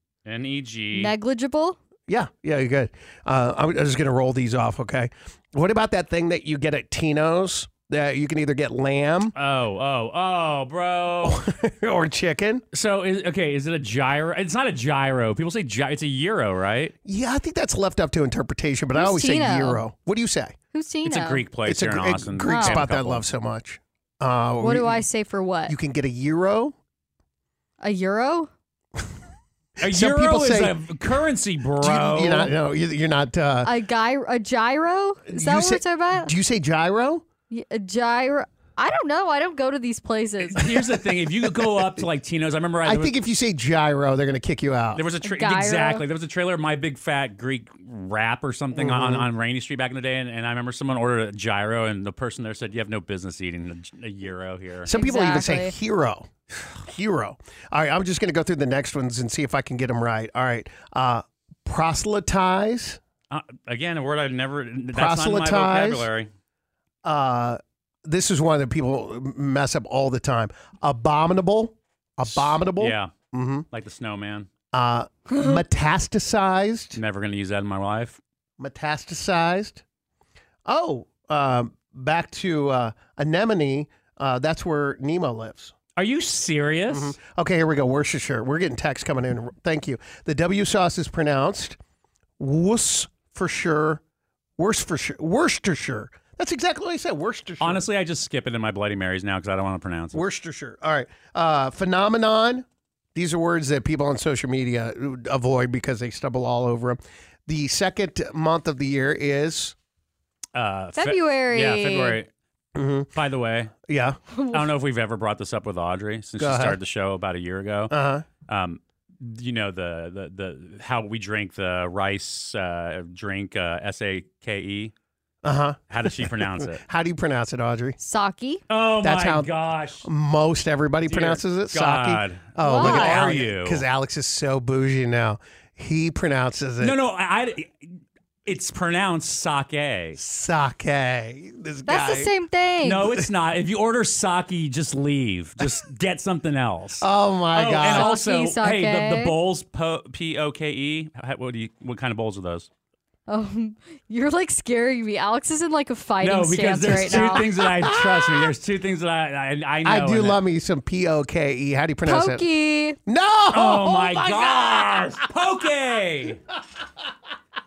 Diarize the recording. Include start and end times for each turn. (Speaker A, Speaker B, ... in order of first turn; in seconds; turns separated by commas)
Speaker A: 0.2-1.1, Speaker B: 0.9-1.8, Speaker C: 2.1-9.3, Speaker A: 9.3-11.4, Speaker C: 11.2-12.6, Speaker A: 12.7-16.9, Speaker C: 17.0-20.5, Speaker B: 18.9-19.8, Speaker B: 20.7-21.4, Speaker A: 21.0-23.2, Speaker C: 21.6-25.0, Speaker B: 22.4-22.8, Speaker B: 24.6-25.7, Speaker C: 25.7-26.7, Speaker B: 27.8-28.5, Speaker C: 29.8-30.8, Speaker A: 29.8-32.5, Speaker C: 31.8-33.7, Speaker B: 33.6-36.3, Speaker C: 35.3-37.2, Speaker B: 37.5-40.7, Speaker A: 40.4-43.1, Speaker C: 42.8-45.0, Speaker A: 44.9-54.9, Speaker B: 45.2-46.0, Speaker C: 48.7-49.3, Speaker B: 54.9-55.7, Speaker C: 54.9-56.3, Speaker C: 56.9-63.0, Speaker A: 63.3-66.3, Speaker C: 64.9-66.1, Speaker C: 67.0-73.7, Speaker A: 72.2-73.1, Speaker A: 73.7-74.5, Speaker C: 74.7-77.0, Speaker A: 76.9-78.2, Speaker C: 78.6-79.8, Speaker C: 80.7-85.7, Speaker A: 86.0-87.2, Speaker C: 86.9-91.8, Speaker C: 92.4-94.0, Speaker C: 94.6-97.8, Speaker A: 97.6-100.2, Speaker C: 100.1-109.7, Speaker A: 110.5-112.3, Speaker B: 111.0-112.2, Speaker C: 112.8-113.1, Speaker A: 113.1-113.7, Speaker C: 113.9-114.2, Speaker B: 114.3-114.7, Speaker A: 114.5-117.9, Speaker C: 116.4-116.8, Speaker C: 117.9-118.2, Speaker A: 118.5-124.9, Speaker C: 125.4-128.0, Speaker A: 125.9-126.8, Speaker B: 128.0-128.6, Speaker A: 128.7-130.0, Speaker C: 129.0-137.0, Speaker A: 131.1-133.8, Speaker B: 132.6-133.3, Speaker A: 136.8-137.9, Speaker A: 138.4-140.2, Speaker C: 140.2-142.3, Speaker B: 141.8-143.1, Speaker A: 142.8-152.7, Speaker C: 147.0-148.1, Speaker B: 147.8-149.3, Speaker B: 153.3-157.5, Speaker A: 156.2-160.4, Speaker C: 157.1-158.5, Speaker C: 159.8-162.5, Speaker B: 162.0-163.0, Speaker C: 163.1-165.0, Speaker A: 163.5-166.4